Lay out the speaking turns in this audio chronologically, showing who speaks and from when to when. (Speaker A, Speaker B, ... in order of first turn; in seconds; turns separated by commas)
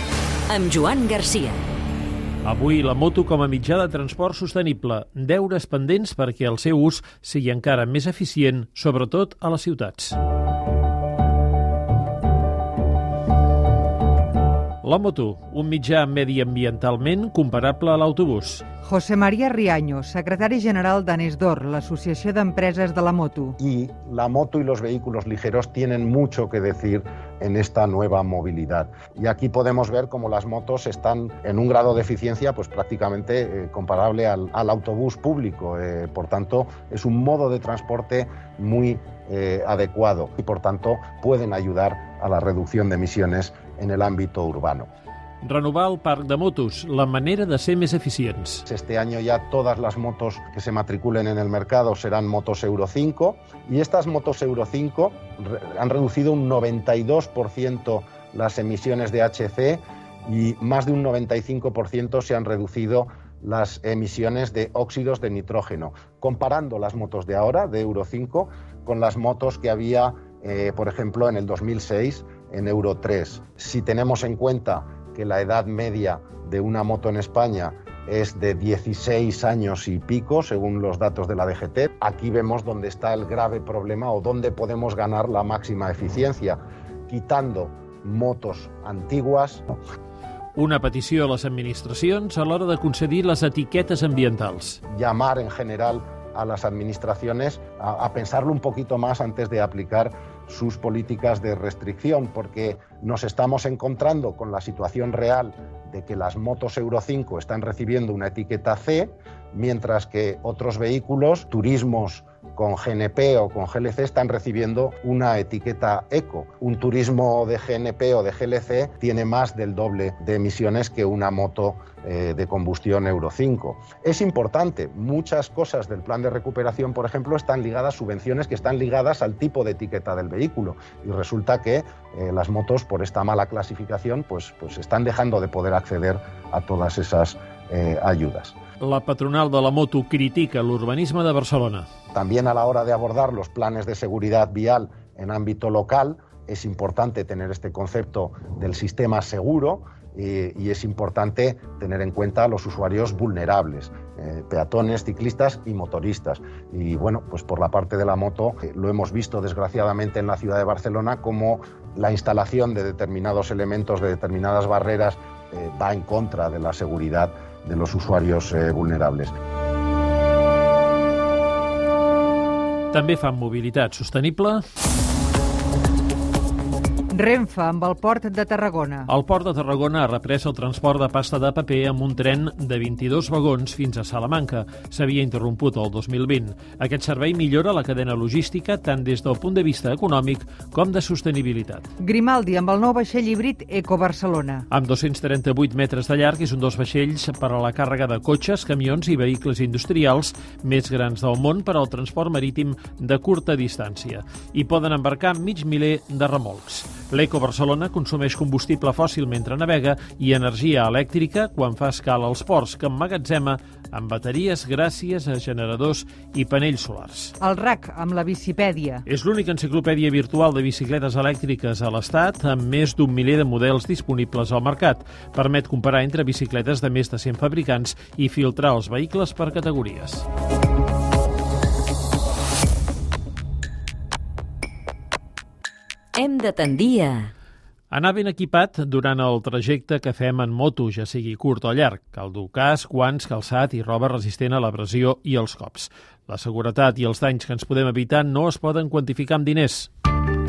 Speaker A: 0.5-1.6, Speaker B: 2.4-10.2, Speaker B: 14.8-18.6, Speaker C: 18.8-23.6, Speaker D: 23.6-44.9, Speaker B: 45.4-48.6, Speaker D: 48.7-89.7, Speaker B: 90.5-94.8, Speaker D: 94.9-138.6, Speaker B: 138.8-141.9, Speaker D: 142.1-169.3, Speaker B: 172.9-174.6, Speaker C: 177.1-179.1, Speaker B: 179.1-191.9, Speaker C: 192.0-194.7, Speaker B: 194.7-217.3, Speaker C: 217.4-219.0, Speaker B: 219.1-230.2, Speaker A: 236.1-237.3, Speaker B: 237.9-249.9